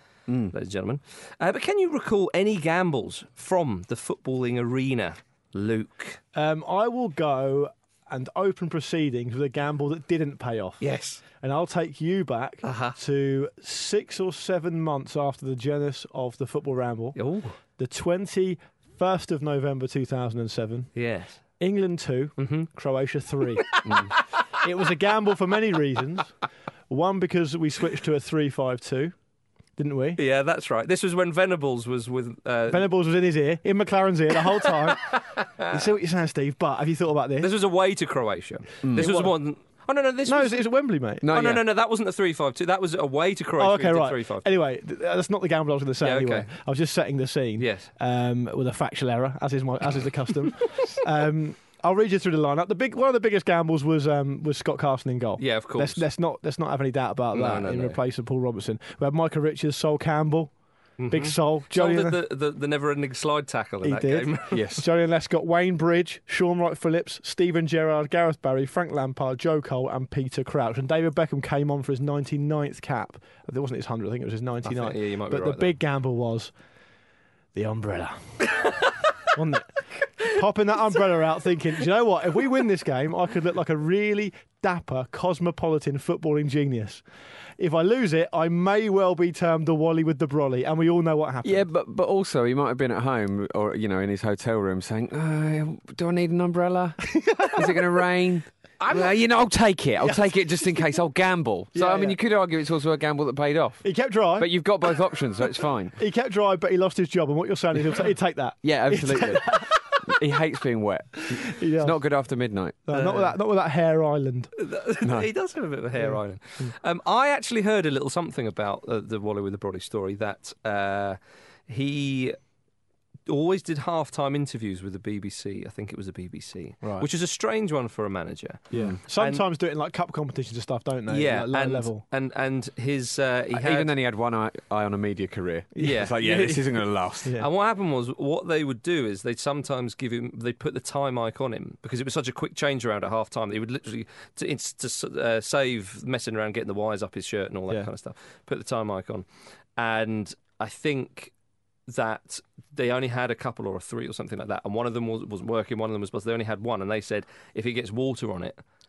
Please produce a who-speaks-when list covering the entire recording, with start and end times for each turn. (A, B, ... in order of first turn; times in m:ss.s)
0:00.3-0:00.5 A
0:00.5-0:06.2 B
0:06.3-0:20.9 C
0:10.8-0:11.2 B
0:12.6-0:13.0 B
0:17.2-0:17.6 B
0:20.9-0:21.4 B
0:21.6-0:26.3 C
0:22.4-0:22.7 B
0:23.7-0:24.1 B
0:26.9-0:29.1 C
0:29.8-0:30.2 C
0:30.2-0:32.9 B
0:32.7-0:37.5 C
0:35.1-0:35.7 B
0:37.4-0:40.6 B
0:38.8-0:39.2 A
0:38.9-0:39.3 C
0:40.2-0:41.3 C
0:41.2-0:41.6 A
0:41.3-0:44.4 B
0:43.6-1:00.5 C
0:46.0-0:46.5 B
0:47.6-0:47.9 B
0:55.4-0:56.0 B
0:57.3-0:58.0 B
1:01.0-1:04.5 B
1:01.1-1:02.2 C
1:03.8-1:16.5 C
1:04.5-1:04.8 A
1:14.6-1:15.7 B
1:17.5-1:19.6 C
1:20.2-1:27.0 C
1:27.6-1:31.6 C
1:31.4-1:46.0 A
1:37.1-1:37.8 C
1:38.8-1:39.1 B
1:41.7-1:42.2 C
1:43.8-1:45.0 C
1:46.0-1:50.0 C
1:48.6-1:52.8 A
1:51.3-1:52.0 C
1:52.9-1:54.5 C
1:52.9-1:53.3 B
1:54.6-2:02.4 B
1:55.0-1:55.3 A
1:56.0-1:56.7 C
2:03.3-2:09.4 B
2:06.8-2:07.1 C
2:08.7-2:12.0 C
2:08.7-2:09.0 A
2:11.1-2:13.9 B
2:13.5-2:17.4 A
2:15.8-2:17.5 C
2:15.8-2:16.2 B
2:17.4-2:29.2 B
2:29.8-2:31.3 B
2:31.9-2:38.6 B